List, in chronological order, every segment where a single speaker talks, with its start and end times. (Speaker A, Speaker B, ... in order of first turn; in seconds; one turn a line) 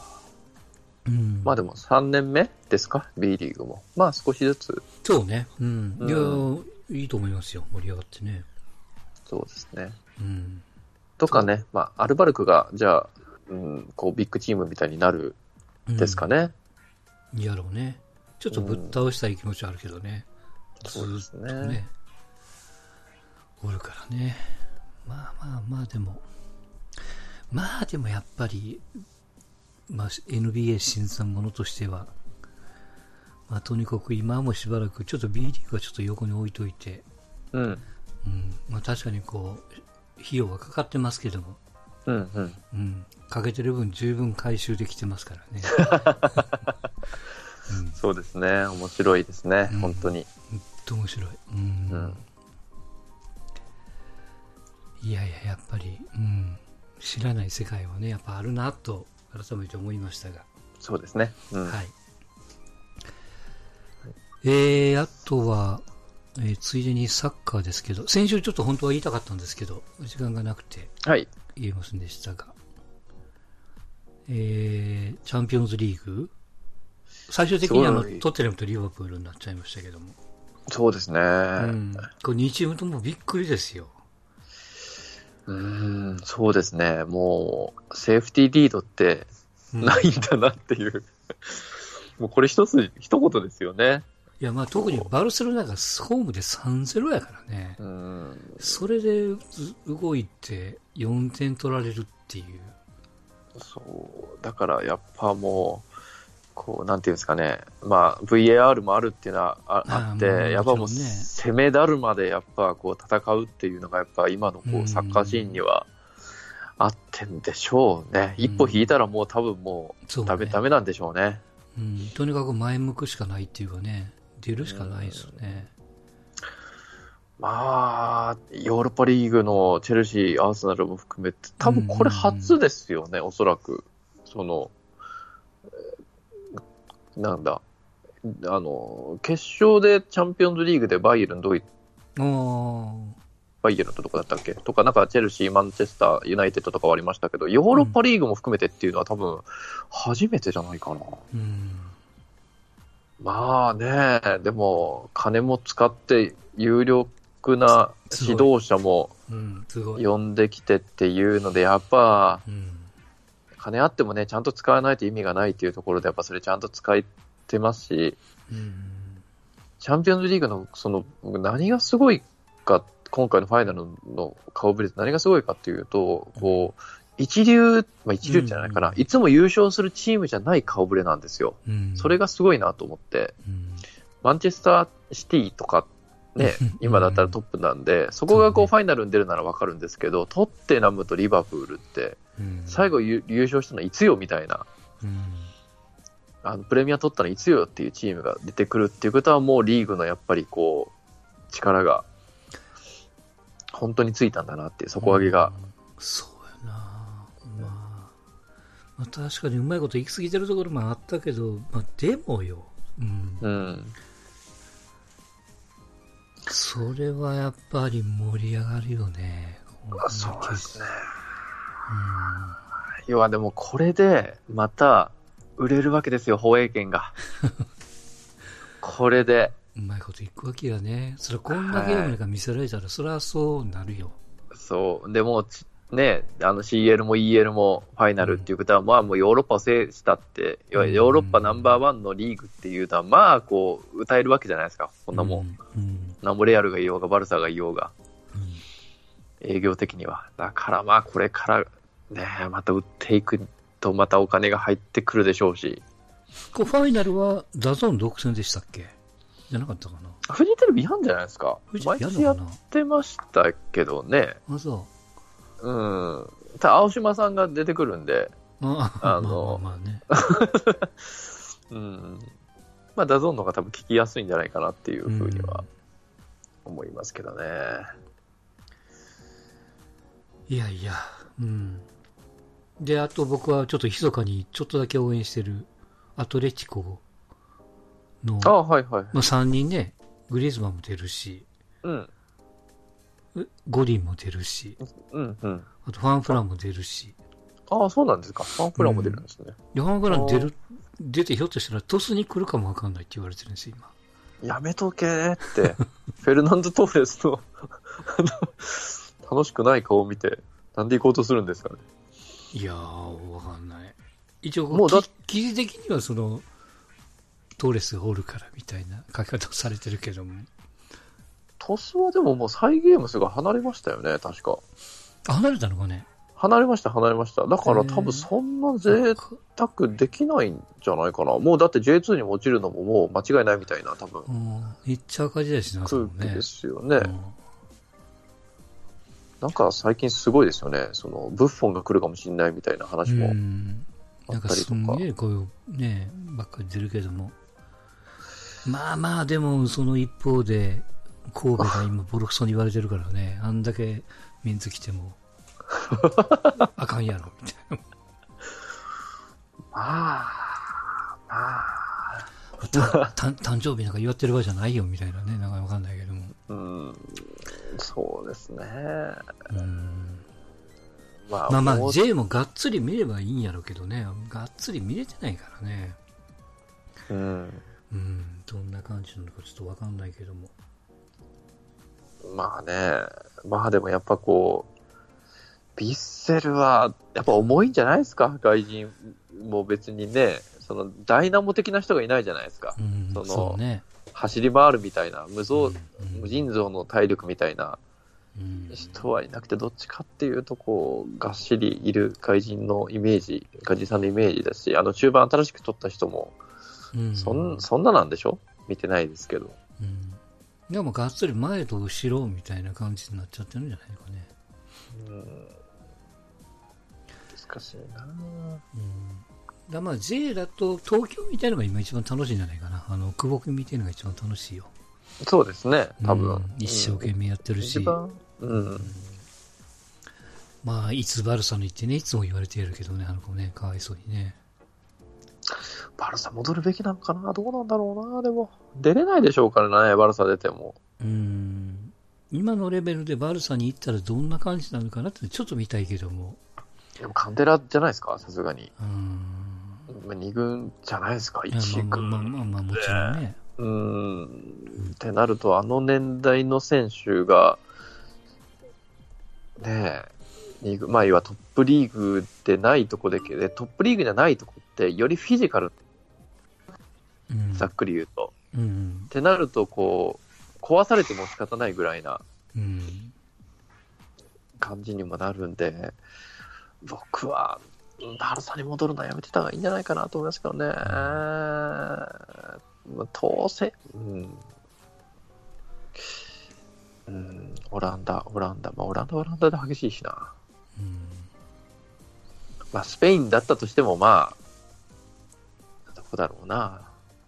Speaker A: 1.1-1.6
Speaker B: 1.4-4.8
Speaker A: 5.0-8.5
Speaker B: 6.0-6.5
Speaker B: 9.3-10.0
Speaker A: 10.2-10.6
Speaker B: 11.2-15.4
Speaker A: 15.9-16.3
Speaker B: 16.0-16.5
Speaker A: 17.3-20.3
Speaker B: 18.5-18.9
Speaker B: 20.8-21.8
Speaker A: 20.8-21.9
Speaker A: 23.6-26.3
Speaker A: 27.5-29.0
Speaker A: 29.9-32.1
Speaker A: 33.5-37.0
Speaker B: 37.5-37.8
Speaker A: 38.2-41.6
Speaker B: 42.1-42.6
Speaker A: 42.7-46.6
Speaker B: 45.8-46.6
Speaker A: 47.7-48.0
Speaker B: 48.0-50.3
Speaker A: 49.7-52.3
Speaker B: 51.9-52.2
Speaker A: 55.0-60.5
Speaker B: 60.8-61.8
Speaker A: 61.6-62.0
Speaker A: 64.4-65.8
Speaker A: 66.4-71.0
Speaker B: 71.0-71.3
Speaker A: 71.5-72.5
Speaker A: 74.3-76.3
Speaker A: 77.3-80.2
Speaker B: 77.6-78.2
Speaker B: 80.7-81.8
Speaker A: 81.6-84.0
Speaker B: 85.5-89.3
Speaker A: 89.7-90.1
Speaker B: 89.8-94.1
Speaker A: 94.4-97.8
Speaker B: 94.8-95.1
Speaker B: 97.8-98.8
Speaker A: 98.6-102.8
Speaker B: 103.6-105.9
Speaker B: 106.5-115.9
Speaker A: 109.9-111.3
Speaker A: 114.7-115.6
Speaker B: 116.8-121.4
Speaker A: 118.4-118.9
Speaker A: 120.1-120.6
Speaker A: 121.8-125.7
Speaker B: 124.6-125.5
Speaker B: 127.4-134.8
Speaker A: 131.6-132.6
Speaker B: 137.2-137.6
Speaker B: 138.2-141.7
Speaker A: 142.2-143.2
Speaker B: 143.6-151.2
Speaker A: 147.7-148.0
Speaker A: 151.3-152.0
Speaker B: 153.2-159.1
Speaker A: 158.1-158.5
Speaker A: 159.3-160.1
Speaker B: 160.0-162.4
Speaker A: 162.5-162.9
Speaker B: 163.6-168.2
Speaker A: 168.5-169.2
Speaker B: 169.8-183.3
Speaker A: 176.4-176.7
Speaker A: 178.2-179.0
Speaker A: 181.7-182.2
Speaker A: 183.4-183.8
Speaker B: 184.2-194.7
Speaker A: 186.4-187.4
Speaker A: 188.3-188.7
Speaker A: 192.4-192.9
Speaker A: 195.0-195.5
Speaker B: 196.4-200.9
Speaker B: 201.5-202.1
Speaker B: 203.7-205.5
Speaker A: 205.0-208.1
Speaker A: 209.0-213.5
Speaker B: 213.4-214.0
Speaker A: 216.5-220.8
Speaker B: 220.0-221.0
Speaker A: 221.9-222.6
Speaker B: 223.1-227.2
Speaker B: 228.8-229.6
Speaker A: 229.8-234.2
Speaker B: 231.5-232.2
Speaker B: 234.5-245.4
Speaker A: 238.2-238.5
Speaker A: 240.8-241.8
Speaker A: 245.1-246.2
Speaker B: 246.2-247.9
Speaker A: 248.3-248.6
Speaker B: 249.4-255.8
Speaker A: 256.5-258.9
Speaker A: 259.5-260.2
Speaker B: 260.2-264.4
Speaker A: 261.7-262.6
Speaker A: 264.5-264.9
Speaker B: 265.6-268.4
Speaker A: 268.6-270.0
Speaker B: 269.0-272.3
Speaker B: 273.0-275.6
Speaker A: 275.1-275.7
Speaker B: 276.6-277.9
Speaker A: 280.5-281.9
Speaker A: 282.8-287.0
Speaker A: 288.2-288.6
Speaker B: 288.4-289.2
Speaker A: 289.1-291.5
Speaker B: 291.8-292.1
Speaker A: 293.4-294.8
Speaker B: 295.0-295.7
Speaker A: 295.8-297.2
Speaker B: 297.7-299.6
Speaker A: 298.8-303.9
Speaker B: 300.1-300.5
Speaker B: 304.4-311.8
Speaker A: 312.5-316.5
Speaker B: 314.7-315.1
Speaker A: 317.6-320.5
Speaker B: 321.6-324.6
Speaker A: 325.2-326.1
Speaker B: 326.4-334.3
Speaker A: 327.6-328.3
Speaker A: 328.9-329.4
Speaker A: 334.3-336.5
Speaker B: 335.9-337.1
Speaker A: 337.0-337.4
Speaker B: 339.4-343.4
Speaker A: 343.1-347.4
Speaker B: 344.3-345.0
Speaker A: 348.6-355.2
Speaker B: 356.0-356.3
Speaker A: 356.4-357.8
Speaker B: 359.7-363.1
Speaker A: 362.6-366.4
Speaker B: 366.5-369.4
Speaker A: 369.5-370.3
Speaker B: 371.3-372.0
Speaker A: 371.5-376.0
Speaker B: 377.1-377.6
Speaker A: 377.9-380.5
Speaker B: 382.2-384.7
Speaker B: 385.8-393.6
Speaker A: 392.8-393.9
Speaker B: 394.1-397.8
Speaker A: 395.5-396.4
Speaker A: 398.4-399.1
Speaker B: 398.7-406.4
Speaker A: 406.9-407.6
Speaker B: 407.1-409.6
Speaker A: 409.8-414.3
Speaker B: 414.9-415.5
Speaker B: 417.3-418.6
Speaker A: 418.7-424.7
Speaker B: 425.2-428.9
Speaker A: 426.0-428.0
Speaker A: 428.5-429.2
Speaker A: 430.6-434.4
Speaker B: 435.5-440.8
Speaker A: 441.0-446.4
Speaker B: 447.0-448.7
Speaker A: 448.8-449.9
Speaker B: 449.9-457.6
Speaker A: 451.5-453.4
Speaker B: 459.6-460.1
Speaker B: 460.6-465.8
Speaker A: 467.3-467.7
Speaker B: 467.5-468.3
Speaker A: 468.5-469.1
Speaker B: 469.1-472.2
Speaker A: 472.6-473.1
Speaker B: 474.6-476.0
Speaker B: 476.8-484.4
Speaker A: 480.8-481.2
Speaker B: 487.1-490.3
Speaker A: 490.8-491.3
Speaker B: 492.7-494.4
Speaker B: 495.9-496.9